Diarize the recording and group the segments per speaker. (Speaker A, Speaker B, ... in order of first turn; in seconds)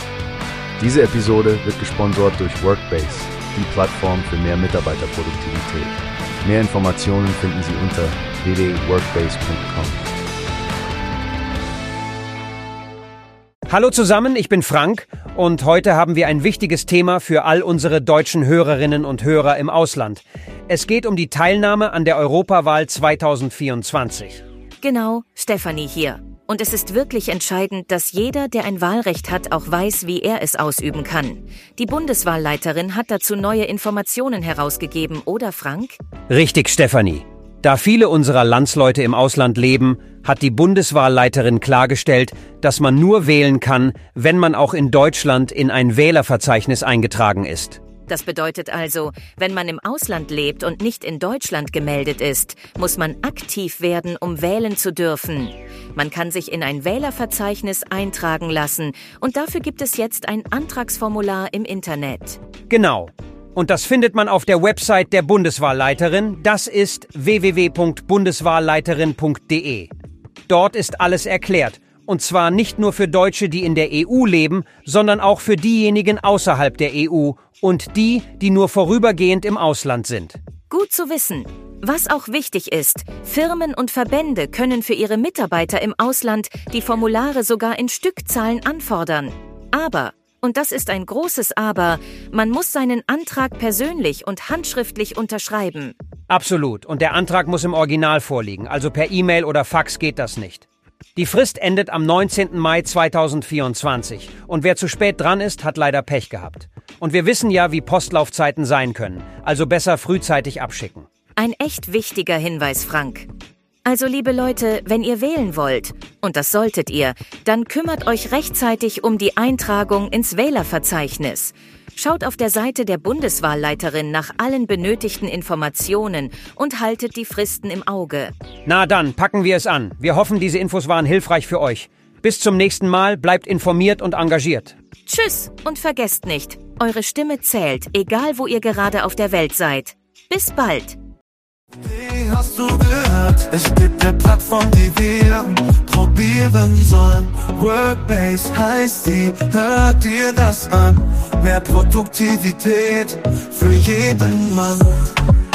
Speaker A: 0.8-10.1
Speaker B: 13.7-24.4, 36.3-47.8, 62.7-69.9, 70.5-80.4, 96.3-111.1, 128.7-134.8
Speaker C: 24.8-36.0, 48.1-62.4, 80.7-95.9, 111.3-113.3, 113.8-128.3, 135.1-141.0
Speaker D: 141.8-155.1